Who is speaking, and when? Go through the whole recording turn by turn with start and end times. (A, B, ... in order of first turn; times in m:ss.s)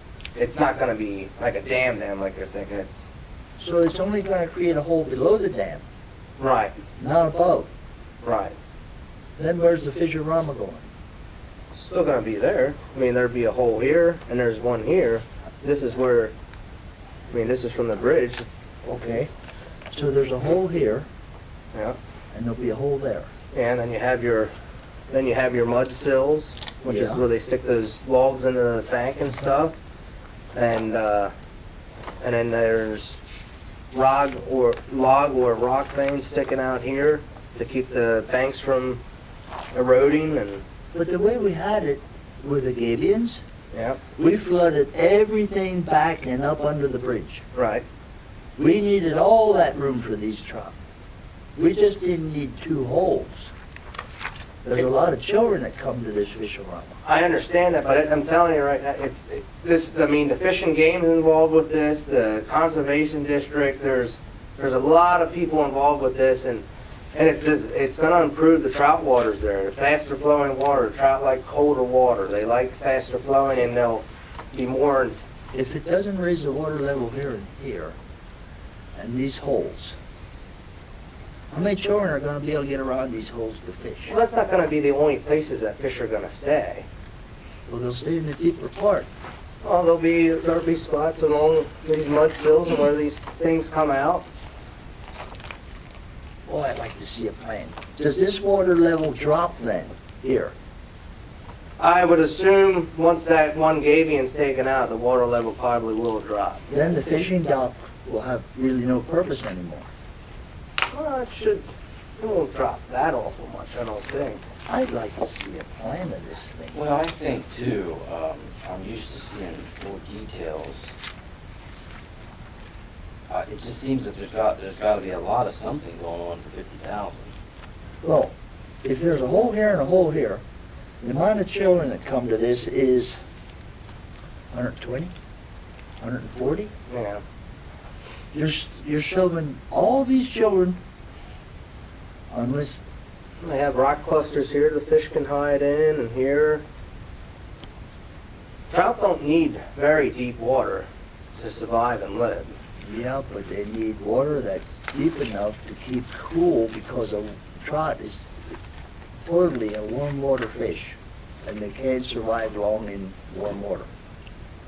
0:00.3-0:03.1 A
0:03.6-0:05.8 B
0:06.4-0:06.7 A
0:07.0-0:07.7 B
0:08.2-0:08.5 A
0:09.4-0:10.9 B
0:11.7-0:16.3 A
0:17.3-0:18.5 A
0:18.8-0:19.3 B
0:19.9-0:21.1 B
0:22.3-0:23.3 B
0:23.5-0:24.5 A
0:25.1-0:29.7 A
0:26.8-0:27.2 B
0:30.5-0:31.3 A
0:32.2-0:33.2 A
0:33.9-0:39.0 A
0:39.7-0:40.6 A
0:40.9-0:43.4 B
0:43.7-0:44.0 A
0:44.2-0:47.4 B
0:47.5-0:47.8 A
0:48.6-0:50.8 B
0:51.6-0:53.5 B
0:54.6-0:57.0 B
0:57.0-1:15.2 A
1:15.5-1:18.0 B
1:18.9-1:20.0 B
1:21.5-1:24.2 B
1:24.1-1:26.8 A
1:27.7-1:29.1 B
1:29.6-1:34.2 A
1:36.4-1:40.5 B
1:41.8-1:46.7 A
1:46.7-1:49.9 B
1:50.9-1:54.4 A
1:54.6-1:56.8 B
1:56.7-2:00.9 C
2:03.3-2:07.3 C
2:08.0-2:10.4 B
2:11.0-2:13.2 B
2:14.5-2:15.1 B
2:16.0-2:16.7 B
2:16.9-2:17.2 A
2:18.3-2:20.8 B
2:22.3-2:22.8 B
2:23.4-2:26.6 A
2:28.7-2:32.5 A
2:32.8-2:38.5 B
2:39.2-2:43.9 B